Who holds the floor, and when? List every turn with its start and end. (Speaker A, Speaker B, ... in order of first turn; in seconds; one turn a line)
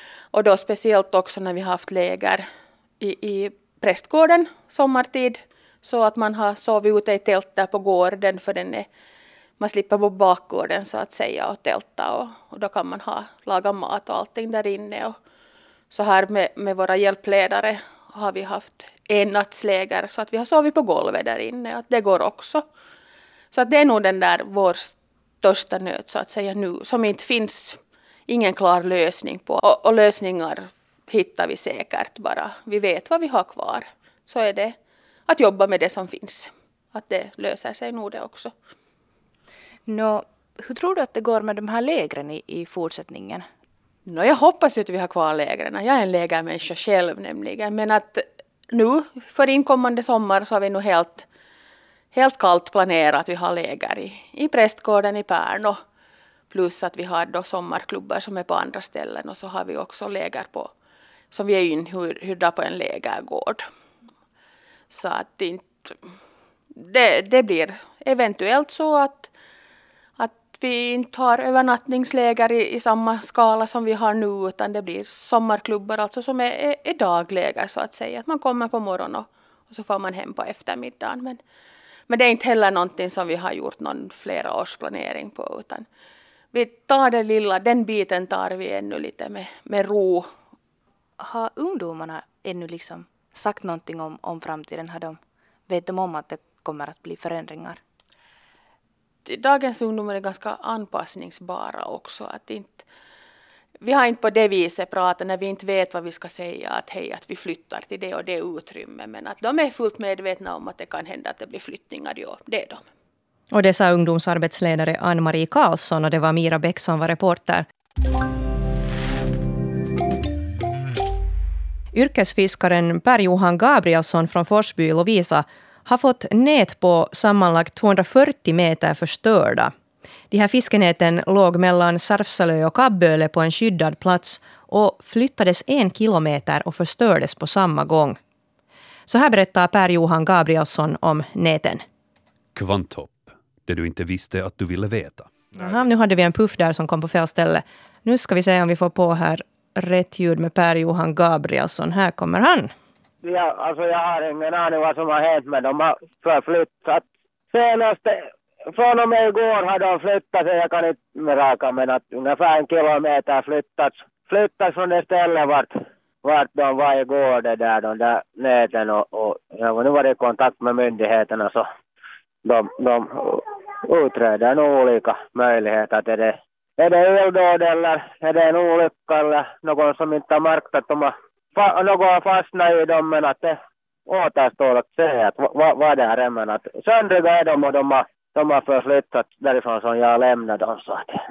Speaker A: 0.3-2.4
Speaker A: 3.0-8.9
Speaker A: 9.6-15.2
Speaker A: 15.9-22.6
Speaker A: 23.5-34.8
Speaker A: 35.3-38.5
Speaker B: 39.9-43.5
Speaker A: 44.1-51.3
Speaker A: 52.1-55.8
Speaker A: 56.5-60.7
Speaker A: 61.3-63.6
Speaker A: 64.9-65.9
Speaker A: 66.8-69.3
Speaker A: 70.2-81.4
Speaker A: 82.1-85.9
Speaker A: 86.5-90.3
Speaker B: 91.2-97.8
Speaker A: 99.2-102.9
Speaker A: 103.8-112.8
Speaker C: 113.5-117.7
Speaker C: 121.9-129.7
Speaker C: 130.3-138.2
Speaker C: 139.1-141.8
Speaker D: 142.6-145.7
Speaker C: 145.6-152.7
Speaker E: 153.2-165.7
Speaker E: 166.2-171.7
Speaker E: 172.4-191.1